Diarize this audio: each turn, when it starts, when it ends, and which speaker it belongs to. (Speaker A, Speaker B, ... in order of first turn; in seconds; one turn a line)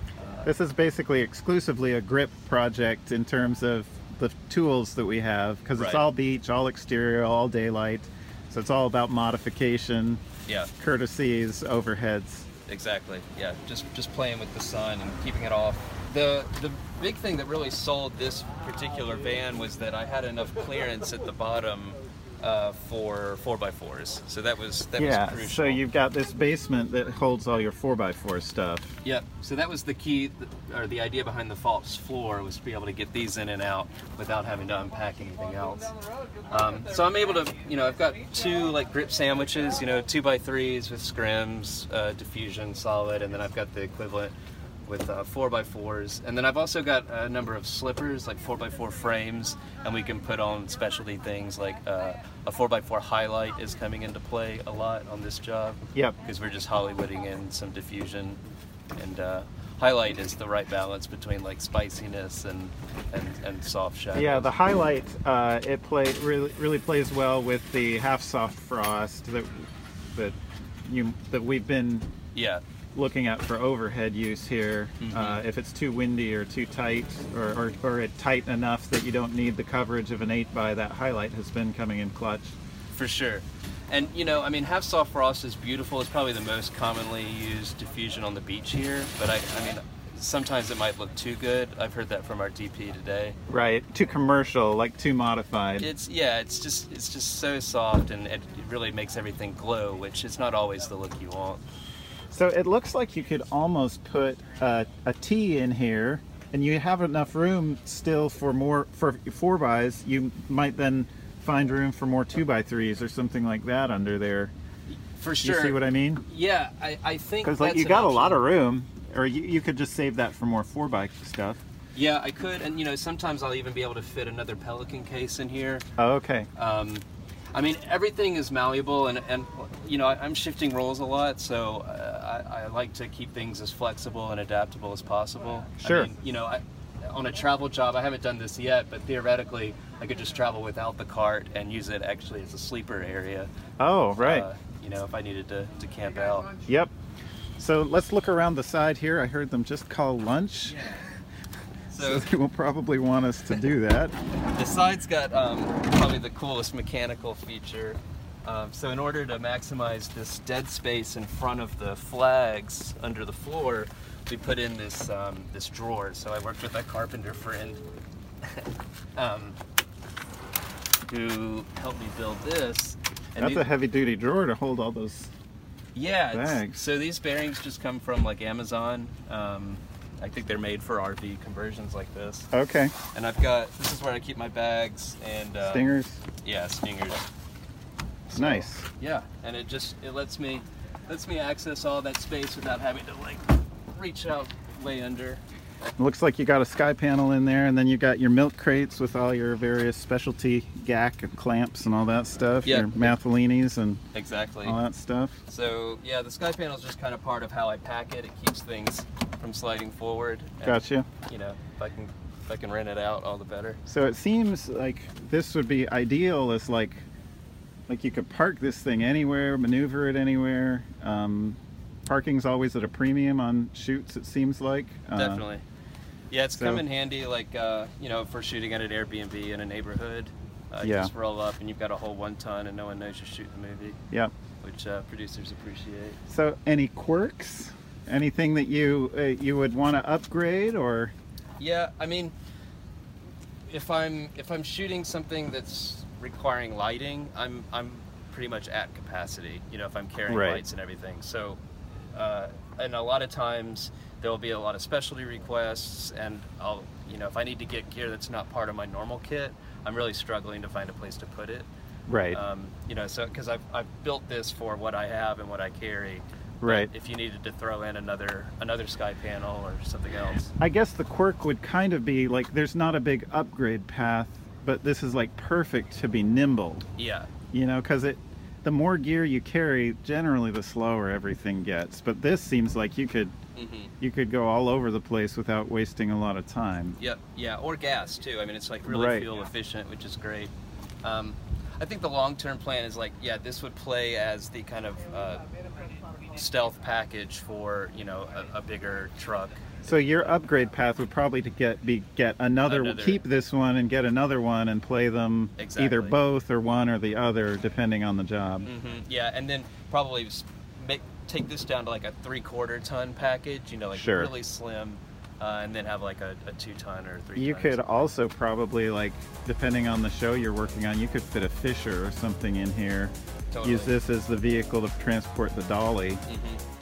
Speaker A: 0.2-0.5
Speaker B: 0.4-10.2
Speaker A: 5.8-6.0
Speaker A: 10.5-10.7
Speaker B: 10.8-12.5
Speaker A: 12.7-25.8
Speaker B: 25.0-29.0
Speaker A: 29.0-36.0
Speaker A: 36.5-58.4
Speaker A: 59.0-64.5
Speaker B: 64.1-72.1
Speaker A: 72.3-72.6
Speaker B: 73.0-82.5
Speaker A: 75.0-75.4
Speaker A: 82.9-93.4
Speaker B: 93.5-95.9
Speaker A: 95.8-101.6
Speaker B: 102.3-114.5
Speaker A: 115.2-118.5
Speaker B: 115.4-116.2
Speaker B: 117.4-121.6
Speaker A: 122.0-125.9
Speaker B: 126.0-126.5
Speaker A: 126.6-143.5
Speaker B: 135.8-136.1
Speaker B: 143.8-144.5
Speaker A: 144.2-146.6
Speaker B: 146.7-146.9
Speaker B: 147.6-150.9
Speaker A: 151.9-152.3
Speaker B: 151.9-154.2
Speaker A: 154.5-167.8
Speaker A: 168.4-169.6
Speaker A: 171.1-173.7
Speaker B: 173.4-175.3
Speaker A: 175.9-182.5
Speaker B: 176.3-176.8
Speaker B: 182.5-183.0
Speaker A: 183.1-185.9
Speaker B: 185.6-186.2
Speaker A: 186.4-187.2
Speaker A: 188.3-195.4
Speaker B: 188.3-188.8
Speaker B: 196.0-204.0
Speaker A: 202.6-203.2
Speaker A: 204.1-204.8
Speaker B: 204.6-205.4
Speaker A: 205.5-213.8
Speaker B: 210.6-211.1
Speaker B: 213.9-217.1
Speaker B: 217.9-225.4
Speaker A: 225.1-225.6
Speaker A: 226.3-234.0
Speaker B: 226.6-226.8
Speaker B: 230.8-231.1
Speaker A: 234.6-236.2
Speaker B: 236.3-241.1
Speaker A: 241.6-242.3
Speaker A: 243.7-251.6
Speaker B: 250.3-250.6
Speaker A: 252.1-261.7
Speaker B: 262.1-262.4
Speaker A: 262.3-270.5
Speaker B: 266.6-266.9
Speaker B: 270.6-276.8
Speaker A: 277.0-277.3
Speaker B: 277.5-283.4
Speaker A: 283.6-283.9
Speaker B: 284.0-287.0
Speaker A: 287.0-290.5
Speaker B: 288.9-289.3
Speaker A: 291.0-295.4
Speaker A: 296.3-300.3
Speaker B: 299.9-308.7
Speaker A: 302.6-303.2
Speaker A: 305.6-306.2
Speaker A: 308.6-318.1
Speaker B: 313.9-314.3
Speaker B: 317.4-326.2
Speaker A: 323.5-323.9
Speaker A: 326.3-326.6